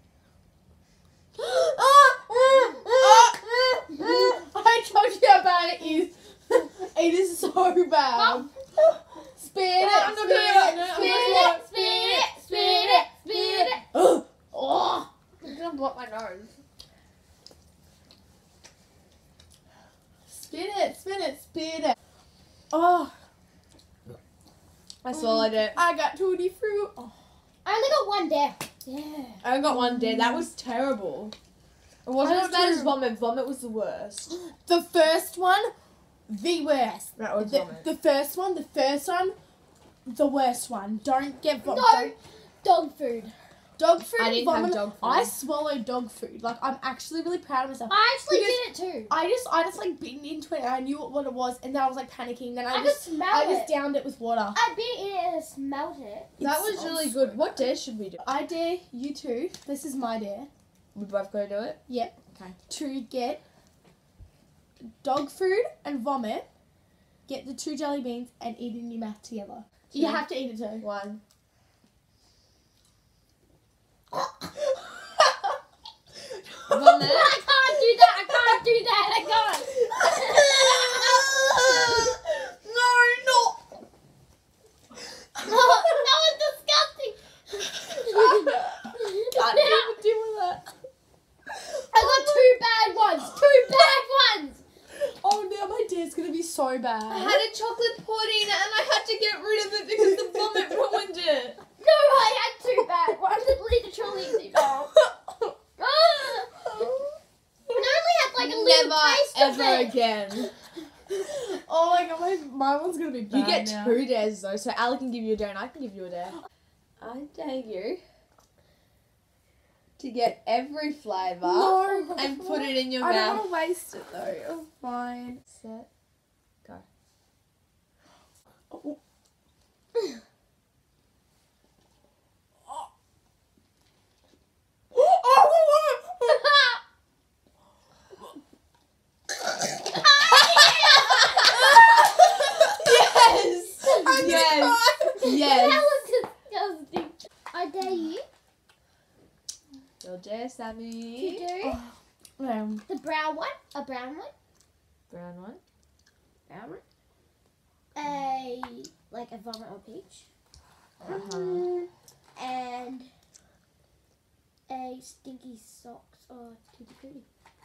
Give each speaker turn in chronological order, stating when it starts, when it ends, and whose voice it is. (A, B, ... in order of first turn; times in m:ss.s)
0:01.5-0:03.3 A
0:02.9-0:08.5 B
0:08.1-0:08.5 C
0:09.4-0:13.0 B
0:09.8-0:11.8 A
0:10.6-0:13.8 C
0:13.9-0:15.1 B
0:15.4-0:16.5 A
0:20.3-0:22.0 B
0:22.7-0:23.2 B
0:25.0-0:25.8 A
0:25.7-0:27.1 B
0:27.6-0:29.2 C
0:28.9-0:30.4 B
0:29.4-0:31.3 A
0:32.0-0:34.3 A
0:32.2-0:33.0 B
0:34.3-0:35.7 B
0:36.3-0:39.4 B
0:37.2-0:37.9 A
0:40.0-0:42.1 B
0:41.6-0:43.3 C
0:43.8-0:54.6 B
0:44.2-0:45.3 A
0:47.9-0:49.2 C
0:52.7-0:53.8 C
0:54.5-0:57.2 C
0:56.4-0:57.3 B
0:56.4-0:58.3 A
0:58.2-1:00.5 B
1:00.9-1:01.8 A
1:01.9-1:02.1 B
1:02.7-1:03.4 B
1:04.8-1:06.5 B
1:07.2-1:10.8 B
1:09.9-1:10.2 A
1:10.8-1:11.2 A
1:14.9-1:15.3 B
1:16.6-1:17.1 B
1:16.7-1:17.4 A
1:16.9-1:21.9 C
1:20.8-1:22.1 A
1:22.6-1:23.6 A
1:25.4-1:29.9 C
1:28.2-1:28.6 B
1:29.3-1:30.6 B
1:31.8-1:32.5 B
1:31.9-1:34.6 C
1:34.9-1:37.4 B
1:37.1-1:41.6 A
1:41.8-1:44.7 C
1:44.5-1:45.5 B
1:45.8-1:46.7 C
1:47.7-1:50.0 C
1:48.4-1:50.5 A
1:51.1-1:54.0 B
1:53.3-1:56.4 A
1:57.0-1:58.0 A
2:00.0-2:03.5 A
2:01.4-2:05.4 B
2:05.5-2:05.9 A
2:08.7-2:09.0 B
2:14.9-2:16.4 B
2:16.2-2:16.8 C
2:19.9-2:22.1 C
2:21.4-2:26.0 A
2:23.8-2:28.2 C
2:24.0-2:24.9 B
2:30.0-2:31.5 A
2:31.1-2:31.8 C
2:31.6-2:32.8 B
2:32.8-2:34.3 C
2:35.1-2:35.6 A
2:36.5-2:36.8 C
2:37.9-2:40.2 C
2:41.0-2:41.7 A
2:41.0-2:43.1 C
2:44.7-2:47.2 C